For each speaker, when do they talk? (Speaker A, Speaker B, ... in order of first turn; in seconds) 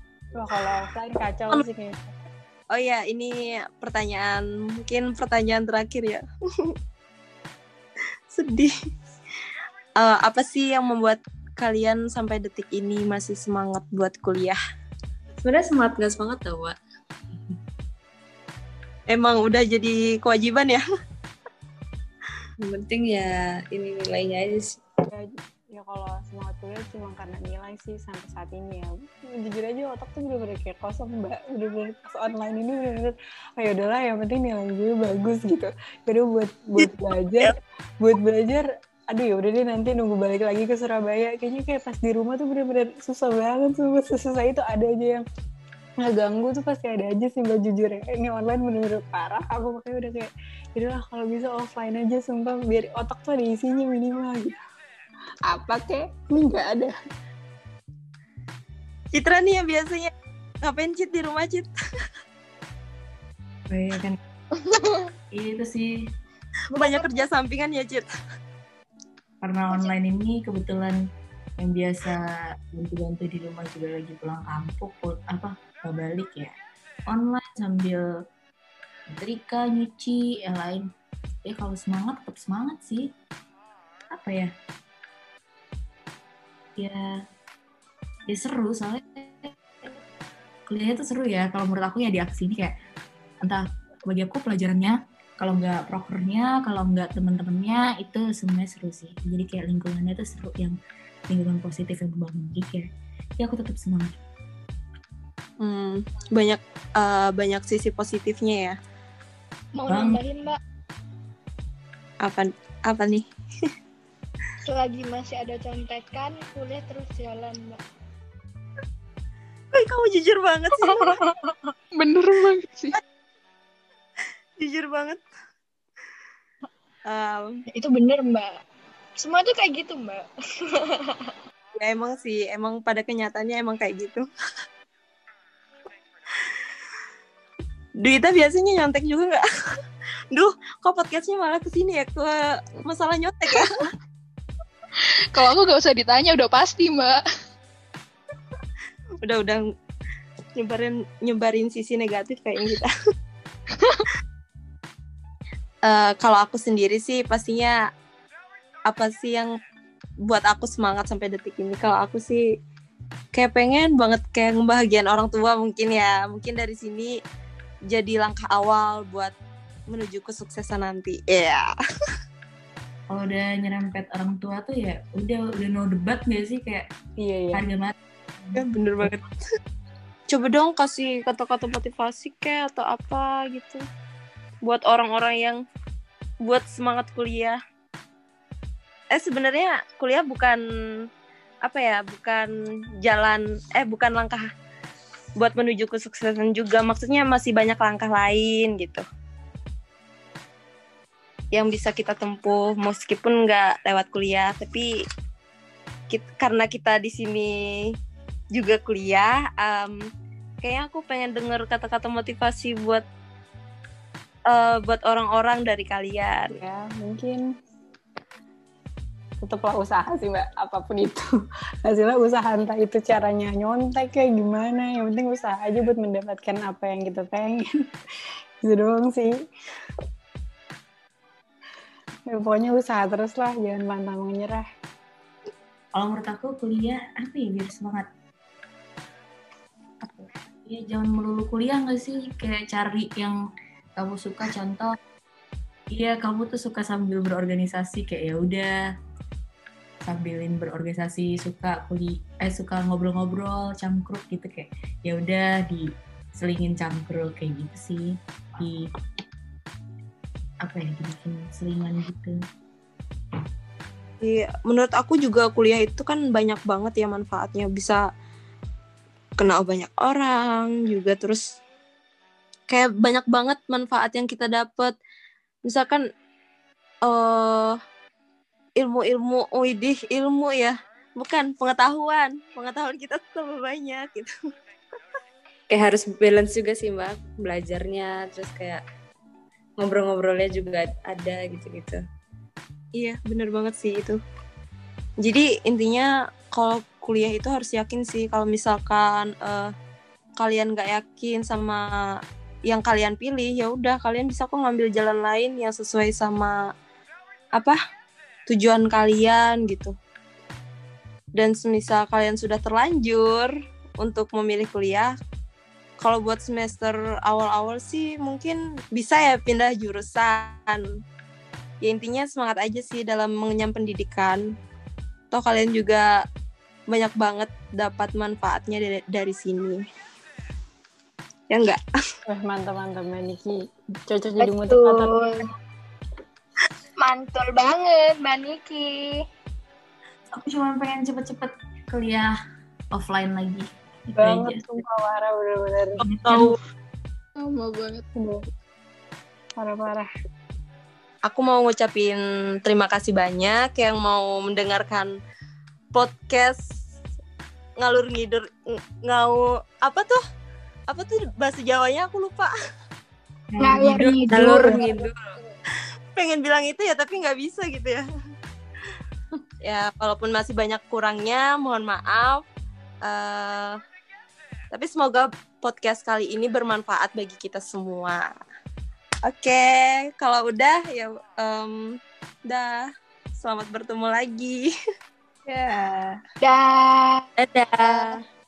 Speaker A: 0.3-2.0, 25.1-45.2, 46.0-54.6, 55.5-56.9, 177.2-177.6, 216.6-217.4, 219.4-221.2, 221.8-227.7, 228.6-229.3, 232.2-234.6, 332.2-333.5, 334.1-335.2, 344.1-346.0, 348.1-348.4, 349.6-350.1
Speaker B: 2.7-6.7, 8.3-8.7, 10.0-14.6, 19.1-20.8, 36.8-37.5, 59.1-60.1, 60.6-61.7, 66.7-68.1, 105.6-108.7, 112.2-113.2, 119.7-121.1, 124.6-125.2, 127.1-127.5, 131.8-134.2, 138.0-139.4, 140.3-143.8, 149.2-149.6, 150.6-152.9, 155.8-157.8, 158.9-159.5, 160.2-162.4, 163.3-167.1, 167.9-169.3, 169.9-171.7, 178.6-179.3, 180.3-183.8, 184.6-185.6, 186.4-187.6, 189.1-190.6, 191.6-192.5, 193.0-194.4, 195.4-199.0, 201.5-204.9, 206.1-207.5, 208.5-209.9, 210.6-213.0, 214.5-216.5, 264.2-268.0, 269.4-271.4, 272.7-274.9, 275.6-276.0, 277.1-277.7, 278.8-284.3, 293.0-294.2, 295.2-299.7, 300.4-301.9, 302.7-306.6, 308.5-309.9, 311.4-315.1, 316.0-320.8, 321.8-324.4, 325.3-326.1, 326.9-329.8, 331.5-331.8, 346.2-346.5, 351.2-355.1, 355.9-356.6, 357.8-358.4, 359.0-360.2, 360.9-362.5, 364.3-365.2, 366.1-368.0, 369.6-372.4, 373.1-373.8, 374.7-378.2, 379.2-381.8, 382.5-382.8, 383.4-384.7, 385.4-386.1, 387.4-388.2
Speaker C: 15.4-16.8, 22.6-24.8, 285.7-288.8, 289.8-292.0
Speaker D: 63.7-64.2, 65.3-66.0, 69.4-71.0, 71.6-76.5, 77.1-78.0, 79.1-80.8, 81.4-83.1, 84.1-84.5, 86.8-87.2, 88.3-89.5, 90.7-92.7, 93.4-100.8, 101.3-102.9, 103.4-104.2, 109.9-110.2, 173.1-176.9, 177.5-179.1, 235.9-238.1, 240.0-243.4, 244.0-244.9, 245.9-248.7, 250.0-258.8, 260.6-262.3, 340.3-342.3, 342.9-344.8, 346.0-346.5, 363.5-364.8
Speaker E: 64.7-64.9, 66.7-67.2, 109.7-110.6, 114.6-117.8, 120.9-121.5, 127.7-128.6, 129.2-130.2, 131.0-131.3, 334.4-335.4, 337.0-339.2, 363.6-365.0, 386.4-387.2, 387.8-388.1
Speaker F: 122.0-123.0, 145.3-147.2, 347.4-348.0